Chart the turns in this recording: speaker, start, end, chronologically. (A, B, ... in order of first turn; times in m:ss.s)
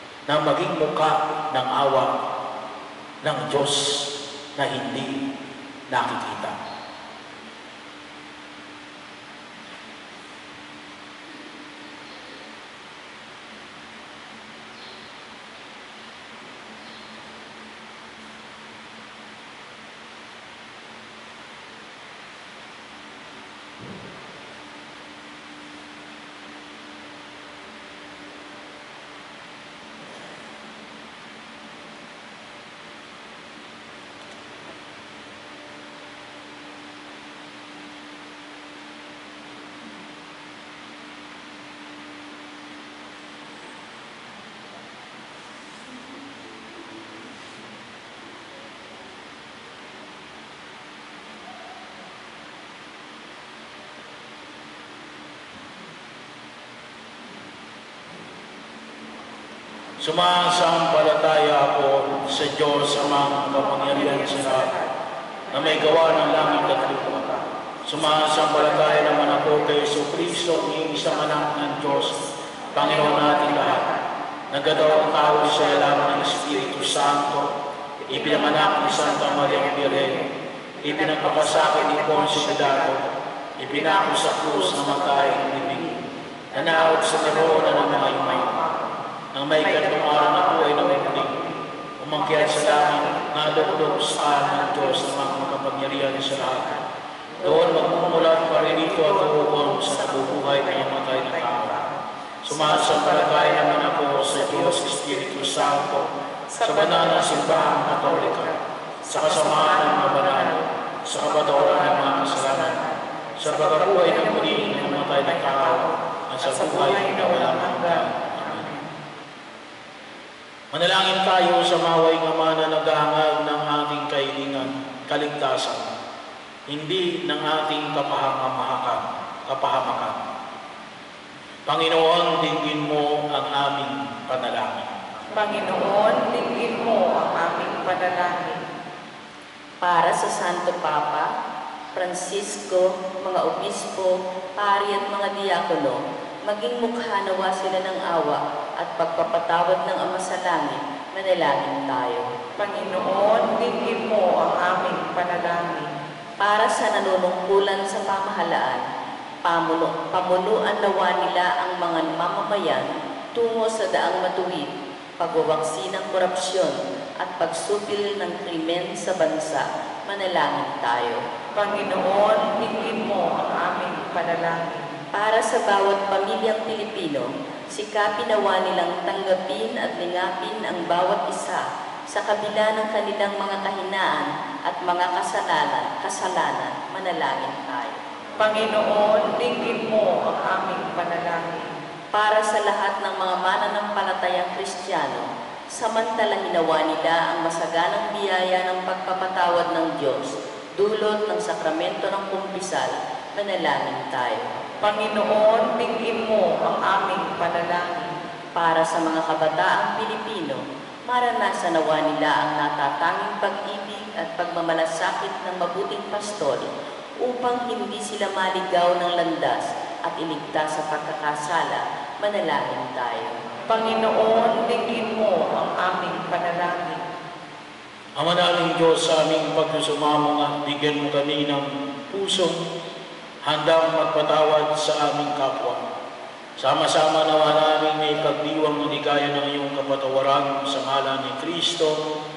0:00.3-0:02.1 A
0:03.2-0:05.2 A
0:05.9-0:06.6 A
1:00.0-1:04.7 A
1:03.4-1:05.0 B
1:05.5-1:07.5 B
1:05.5-1:12.2 A
1:08.0-1:17.4 B
1:12.7-1:13.9 A
1:14.5-1:17.5 A
1:18.1-1:23.0 B
1:18.1-1:20.2 A
1:20.8-1:23.0 A
1:23.6-1:25.9 A
1:23.7-1:26.0 B
1:26.5-1:28.6 A
1:26.5-1:29.0 B
1:29.3-1:31.3 A
1:29.6-1:58.9 B
1:32.0-1:36.8 A
1:37.4-1:41.8 A
1:42.4-1:46.1 A
1:46.6-1:48.5 A
1:49.1-1:50.5 A
1:51.0-1:52.8 A
1:53.4-1:58.7 A
2:00.7-2:05.9 A
2:06.7-2:10.2 A
2:11.7-2:15.0 A
2:15.3-2:18.6 B
2:19.8-2:21.3 C
2:21.9-2:26.0 C
2:26.5-2:32.3 C
2:32.6-2:35.9 B
2:36.4-2:38.8 C
2:39.4-2:44.7 C
2:45.2-2:51.2 C
2:51.5-2:54.9 B
2:55.1-3:08.0 C
3:08.4-3:11.8 B
3:12.1-3:24.6 C
3:24.8-3:28.2 B
3:28.6-3:36.7 C
3:37.2-3:43.4 C
3:43.7-3:47.1 B
3:48.2-3:52.6 A
3:53.4-3:55.8 A
3:56.6-4:02.0 A